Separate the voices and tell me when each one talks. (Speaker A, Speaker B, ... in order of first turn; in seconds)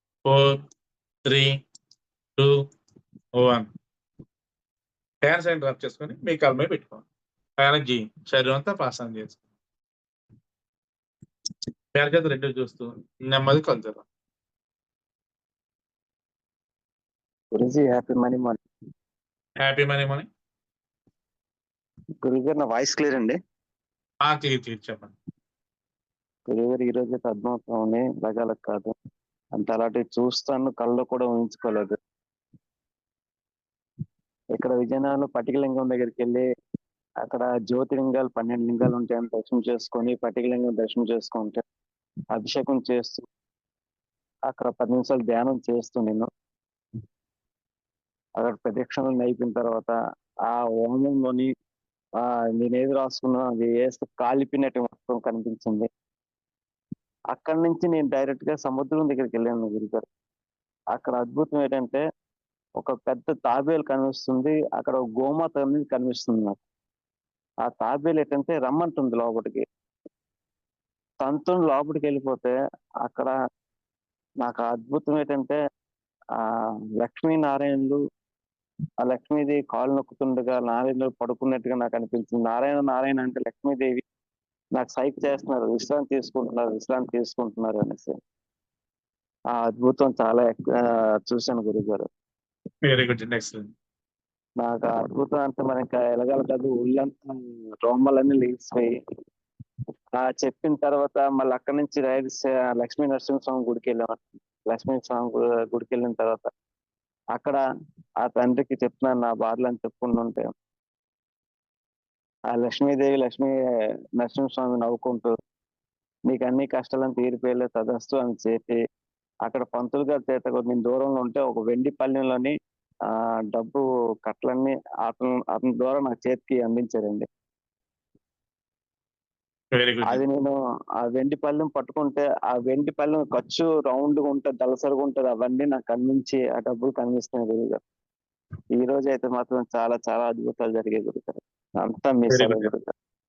Speaker A: 0.2-0.6, 1.3-1.6, 3.4-3.7, 5.2-7.0, 7.6-9.4, 11.9-14.0, 19.6-20.3, 24.2-25.1, 92.8-93.7, 129.7-130.2, 142.3-142.7
Speaker B: 17.5-18.6, 22.2-23.4, 26.5-28.9, 29.6-31.9, 34.5-36.5, 37.2-41.6, 42.3-43.2, 44.5-46.3, 48.4-51.5, 52.2-55.9, 57.3-60.0, 60.9-62.0, 62.8-66.6, 67.6-69.6, 71.2-73.3, 74.4-75.6, 77.0-78.0, 79.0-84.0, 84.8-88.1, 89.5-92.0, 94.6-97.3, 97.8-98.9, 100.2-106.5, 107.3-107.6, 108.2-110.5, 112.5-113.5, 114.2-115.3, 116.3-118.8, 119.5-122.5, 123.1-127.2, 130.1-137.8, 138.8-142.9